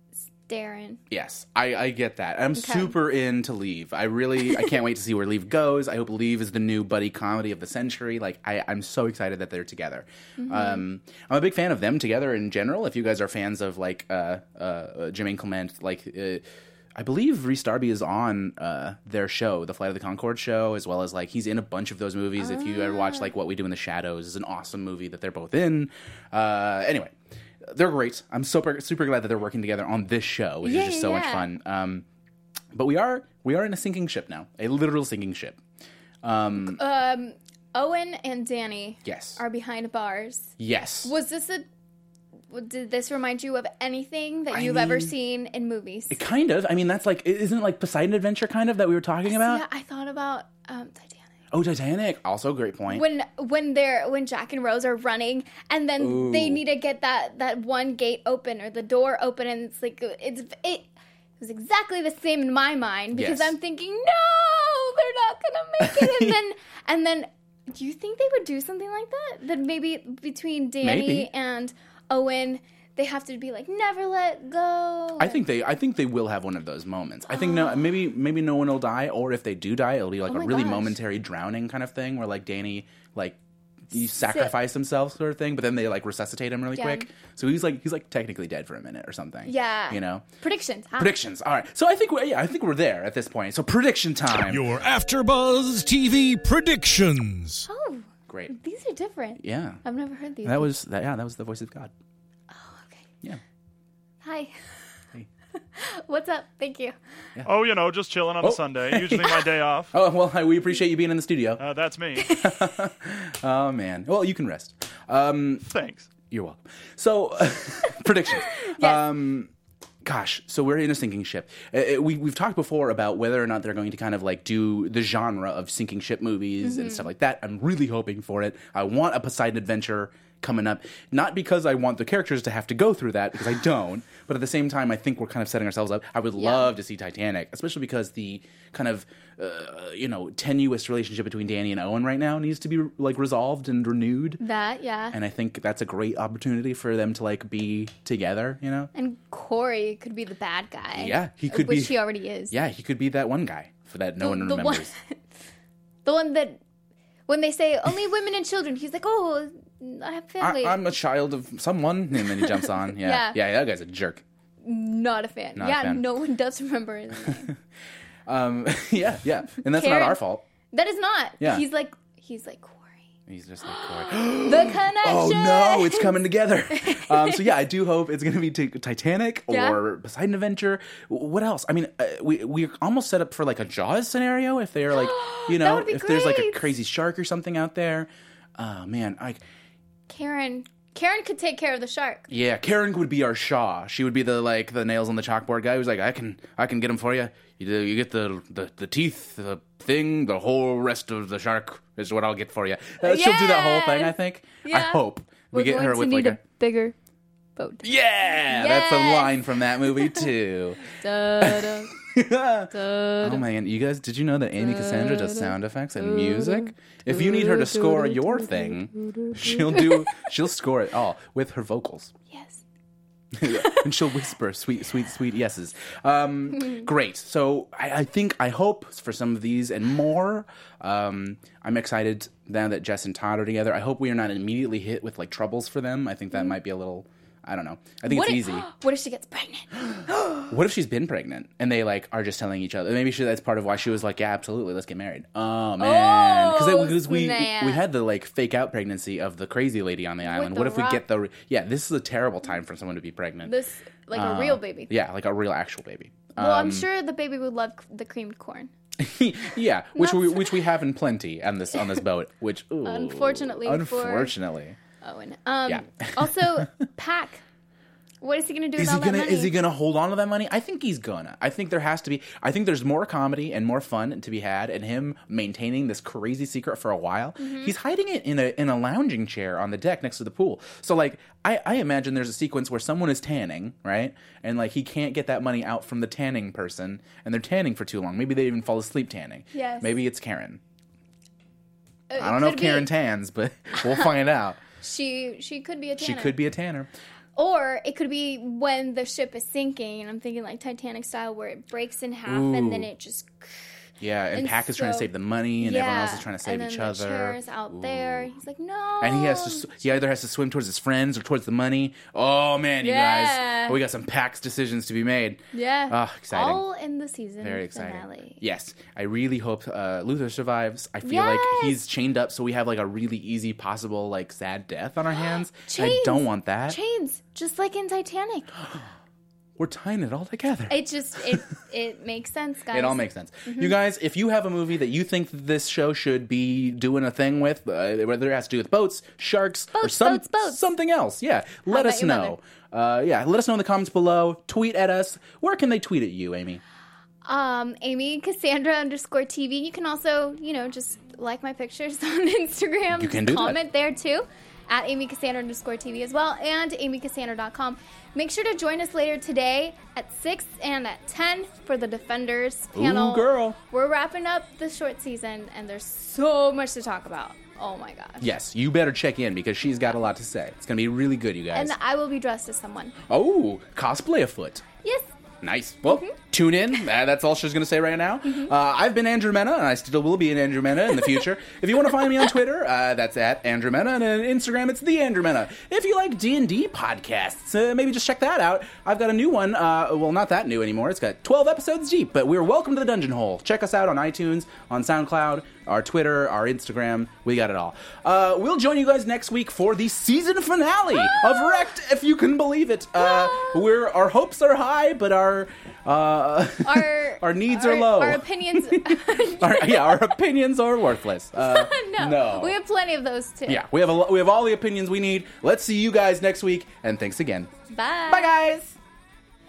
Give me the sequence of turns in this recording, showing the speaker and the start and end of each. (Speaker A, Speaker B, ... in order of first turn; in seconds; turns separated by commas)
Speaker A: 0.4-1.0, Speaker B: 1.1-16.4, Speaker A: 2.5-3.0, Speaker A: 10.4-10.8, Speaker B: 16.9-32.1, Speaker A: 22.4-23.3, Speaker A: 30.6-31.5, Speaker B: 32.7-35.6, Speaker B: 36.2-36.8, Speaker A: 36.6-41.7, Speaker B: 39.0-39.4, Speaker B: 40.6-41.1, Speaker A: 42.5-46.2, Speaker B: 44.5-45.1, Speaker B: 46.1-49.6, Speaker A: 49.3-51.3, Speaker B: 51.5-53.0, Speaker A: 52.9-60.9, Speaker B: 56.0-56.6, Speaker A: 61.4-75.4, Speaker B: 63.1-63.5, Speaker B: 65.8-66.3, Speaker B: 70.8-71.3, Speaker B: 75.2-83.4, Speaker A: 77.3-78.0, Speaker A: 80.3-81.0, Speaker B: 83.9-90.2, Speaker A: 84.2-84.5, Speaker A: 86.8-87.1, Speaker A: 89.5-91.1, Speaker B: 91.0-94.7, Speaker C: 94.4-97.7, Speaker A: 97.6-100.7, Speaker B: 98.3-98.5, Speaker B: 99.4-99.8, Speaker B: 100.4-101.9, Speaker A: 102.5-103.1, Speaker A: 104.2-104.8, Speaker A: 105.7-107.0, Speaker D: 107.4-109.9, Speaker B: 108.4-111.6, Speaker D: 111.6-112.4, Speaker A: 112.2-112.7, Speaker B: 112.3-115.7, Speaker D: 115.7-116.1, Speaker B: 116.3-119.5, Speaker A: 118.7-119.0, Speaker B: 120.0-144.4, Speaker A: 126.6-127.1, Speaker A: 136.4-136.7, Speaker A: 144.4-145.2, Speaker B: 145.1-148.9, Speaker A: 148.9-152.6, Speaker B: 151.0-152.0, Speaker B: 152.5-154.9, Speaker A: 154.2-155.2, Speaker A: 156.1-156.6, Speaker A: 157.3-160.8, Speaker B: 160.4-164.2, Speaker A: 162.4-163.4, Speaker A: 164.6-167.5, Speaker B: 165.6-166.0, Speaker B: 168.3-170.4, Speaker A: 169.7-170.2, Speaker A: 170.7-173.0, Speaker B: 173.3-189.4, Speaker A: 173.7-176.2, Speaker A: 176.7-177.4, Speaker A: 179.5-179.8, Speaker A: 184.9-186.7, Speaker A: 190.1-192.3, Speaker B: 192.3-206.4, Speaker A: 203.0-206.9, Speaker A: 207.6-207.9, Speaker B: 207.8-222.1, Speaker A: 208.5-210.3, Speaker A: 210.9-211.9, Speaker A: 212.7-213.5, Speaker A: 214.6-218.2, Speaker A: 219.7-220.1, Speaker A: 222.3-222.6, Speaker B: 223.3-238.7, Speaker A: 223.5-223.9, Speaker A: 238.1-240.5, Speaker B: 240.5-253.6, Speaker A: 245.8-247.8, Speaker A: 250.2-251.0, Speaker A: 253.4-254.9, Speaker B: 254.1-256.9, Speaker A: 256.4-258.7, Speaker B: 259.0-264.8, Speaker A: 259.9-260.7, Speaker A: 261.8-262.0, Speaker A: 262.8-264.3, Speaker A: 265.0-267.4, Speaker B: 265.7-266.6, Speaker A: 268.2-269.6, Speaker B: 268.8-290.6, Speaker A: 277.4-277.8, Speaker A: 289.5-289.9, Speaker A: 292.1-292.9, Speaker B: 292.2-294.6, Speaker A: 294.8-296.4, Speaker B: 296.0-296.9, Speaker A: 297.4-309.7, Speaker B: 302.3-302.9, Speaker B: 304.0-308.3, Speaker B: 309.0-316.6, Speaker A: 312.8-313.8, Speaker A: 315.5-318.4, Speaker B: 317.4-326.8, Speaker A: 321.0-321.8, Speaker A: 325.7-328.5, Speaker B: 329.6-330.8, Speaker A: 330.7-333.7, Speaker B: 332.7-346.6, Speaker A: 339.7-340.7, Speaker A: 341.7-342.4, Speaker A: 347.2-368.3, Speaker B: 352.9-353.6, Speaker B: 362.7-363.6, Speaker B: 368.2-371.7, Speaker A: 371.5-373.0, Speaker B: 373.1-374.6, Speaker A: 374.8-375.1, Speaker B: 375.4-412.6, Speaker A: 375.9-376.2, Speaker A: 378.2-378.5, Speaker A: 400.9-401.7, Speaker A: 403.0-403.7, Speaker A: 406.6-410.1, Speaker A: 411.4-413.6, Speaker B: 413.5-417.5, Speaker A: 417.7-418.4, Speaker B: 418.1-418.8